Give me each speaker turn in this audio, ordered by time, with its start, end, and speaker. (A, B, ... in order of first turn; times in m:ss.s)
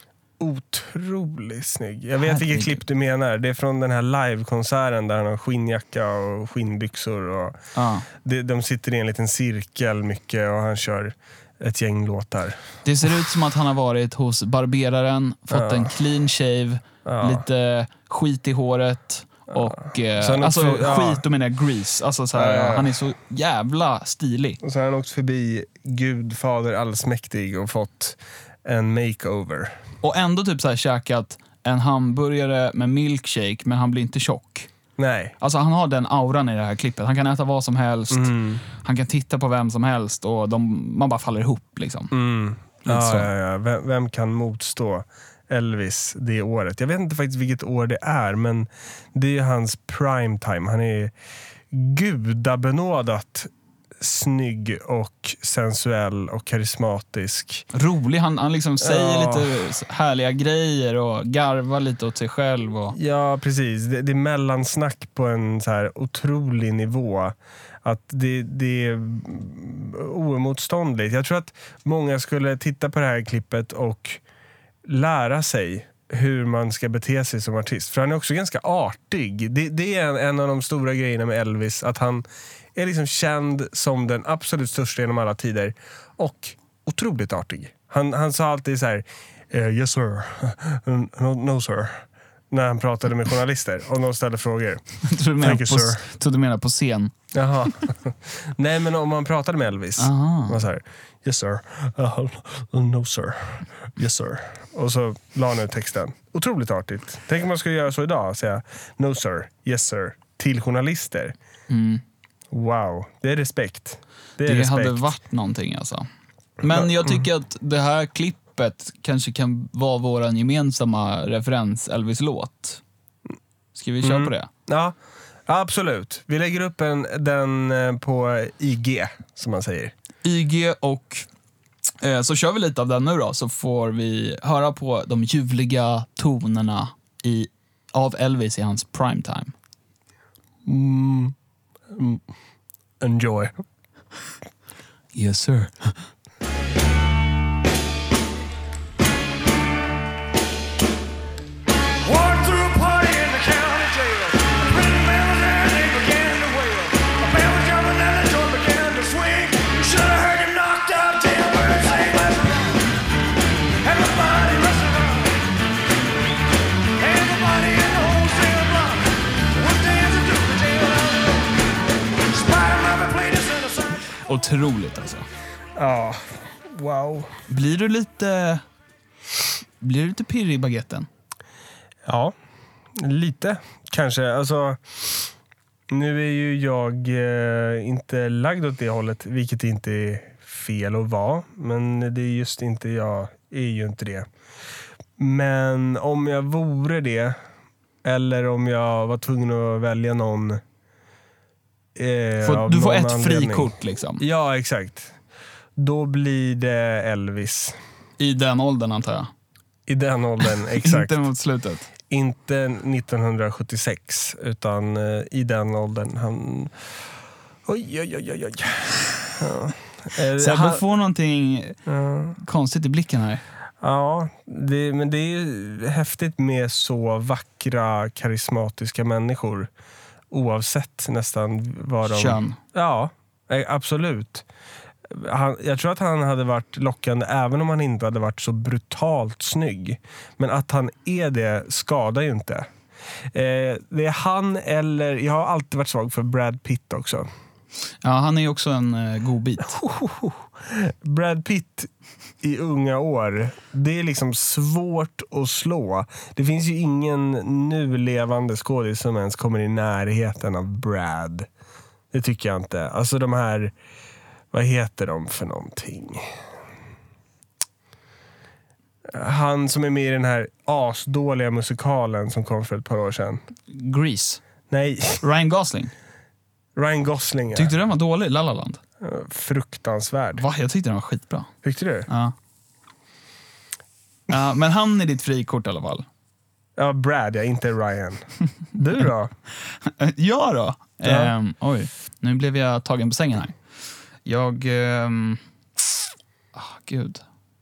0:00.4-0:07.6 A
0:02.2-0:02.8 B
0:07.8-0:08.1 B
0:08.2-0:12.6 A
0:12.8-0:24.6 B
0:15.5-0:15.9 A
0:17.0-0:17.4 A
0:19.6-0:21.2 A
0:22.3-0:22.9 A
0:24.6-0:29.8 A
0:30.0-0:34.7 B
0:35.0-0:35.4 A
0:35.4-0:42.1 B
0:38.1-0:38.6 A
0:42.1-0:51.1 A
0:42.8-0:43.3 B
0:51.7-0:57.6 A
0:57.7-1:03.0 B
0:58.8-0:59.7 A
1:02.9-1:14.2 A
1:14.8-1:22.2 A
1:22.8-1:34.8 A
1:35.0-1:37.1 B
1:35.4-1:36.0 A
1:37.3-1:51.4 A
1:40.0-1:40.6 B
1:44.0-1:44.4 B
1:51.7-1:52.0 B
1:52.5-1:55.1 A
1:54.4-1:56.1 B
1:56.6-2:02.8 B
1:56.6-1:57.2 A
2:03.8-2:04.5 B
2:04.0-2:05.0 A
2:05.5-2:09.9 A
2:10.2-2:11.2 B
2:12.0-2:19.5 B
2:20.7-2:21.4 A
2:21.9-2:22.2 A
2:23.0-2:23.5 A
2:25.1-2:26.0 B
2:32.0-2:42.7 C
2:43.8-2:45.3 C
2:47.0-2:51.4 C
2:52.3-2:53.9 C
2:54.3-2:55.3 B
2:55.8-2:57.3 A
2:57.5-2:58.6 B
2:59.8-3:01.1 B
3:02.0-3:02.3 A
3:03.0-3:05.3 A
3:05.9-3:14.3 A
3:15.2-3:17.4 A
3:18.0-3:20.6 A
3:22.0-3:25.2 A
3:22.4-3:24.2 B
3:25.8-3:27.8 A
3:28.2-3:29.3 B
3:29.9-3:31.2 A
3:30.7-3:31.9 B
3:32.1-3:36.8 A
3:37.7-3:40.8 A
3:40.4-3:41.8 B
3:41.9-3:42.4 A
3:42.4-3:43.4 B
3:43.8-3:49.7 A
3:50.3-3:54.5 A
3:52.1-3:52.6 B
3:55.1-4:02.7 A
4:03.3-4:07.3 A
4:08.0-4:09.8 B
4:09.7-4:21.5 A
4:22.1-4:23.7 A
4:24.5-4:26.3 A
4:29.1-4:33.4 A
4:33.7-4:34.4 B
4:34.7-4:35.2 A
4:35.2-4:35.9 B
4:36.8-4:37.7 A
4:37.6-4:38.8 B
4:39.0-4:40.4 A
4:40.4-4:41.5 B
4:41.6-4:42.1 A
4:42.1-4:42.3 B
4:44.3-4:46.1 B
4:46.8-4:49.3 A
4:49.8-4:53.6 B
4:51.0-4:51.3 A
4:54.2-4:55.4 B
4:56.5-4:57.2 B